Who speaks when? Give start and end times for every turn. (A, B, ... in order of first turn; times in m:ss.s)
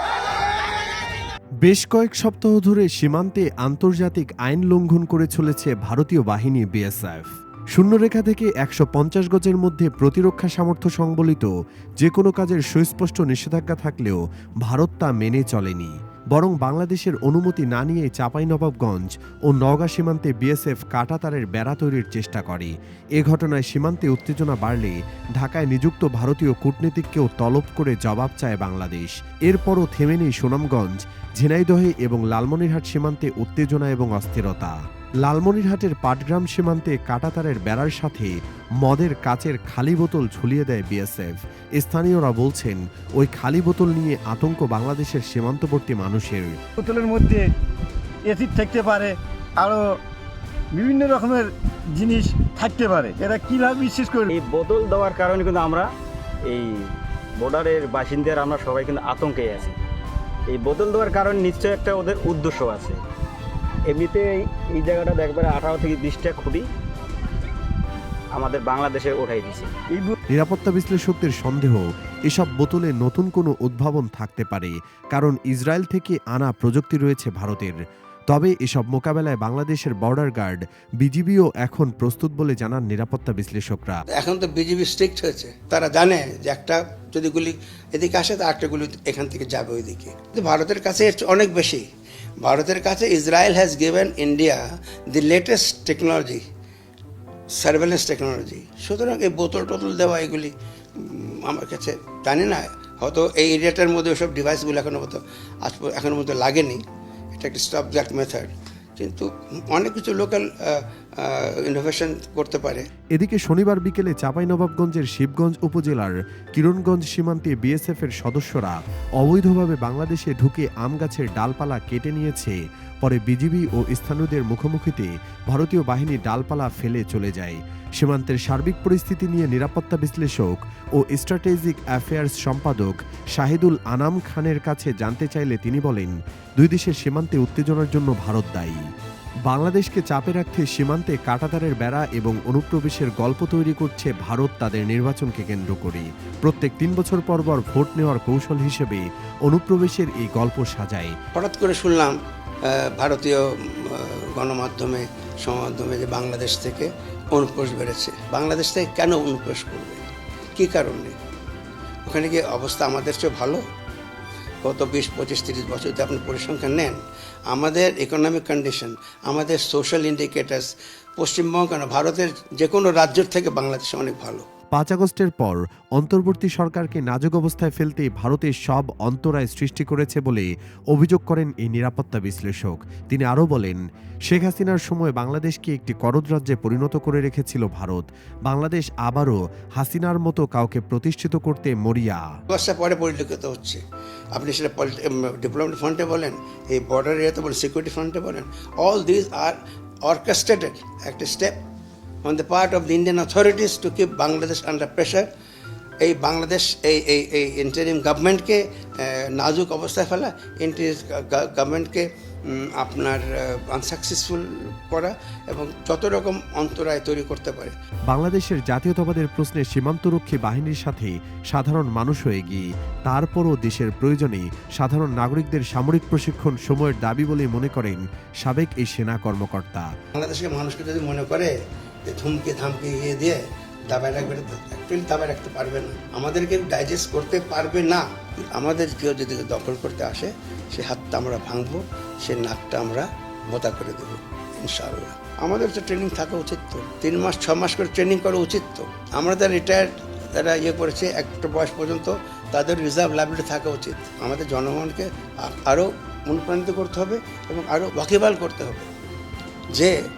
0:01.6-0:11.5 A
0:12.0-0:46.5 A
0:46.8-0:47.5 B
0:48.2-0:50.0 B
0:50.7-0:54.3 B
0:54.3-0:55.8 C
0:56.5-0:59.7 C
1:00.5-1:03.0 C
1:03.9-1:06.6 C
1:08.3-1:09.7 C
1:10.3-1:17.8 A
1:18.3-1:24.0 A
1:24.1-1:31.8 D
1:32.4-1:36.4 D
1:37.6-1:46.8 D
1:47.3-1:52.9 D
1:53.1-2:18.8 A
2:19.5-2:31.1 A
2:31.3-2:40.0 D
2:40.6-2:41.1 D
2:42.0-2:43.6 D
2:44.6-2:47.0 D
2:47.5-2:54.4 D
2:54.7-3:12.2 A
3:12.5-3:13.8 D
3:14.3-3:21.6 D
3:22.2-3:25.3 D
3:26.0-3:37.7 D
3:38.1-3:49.9 A
3:50.1-3:51.5 D
3:52.1-4:18.9 D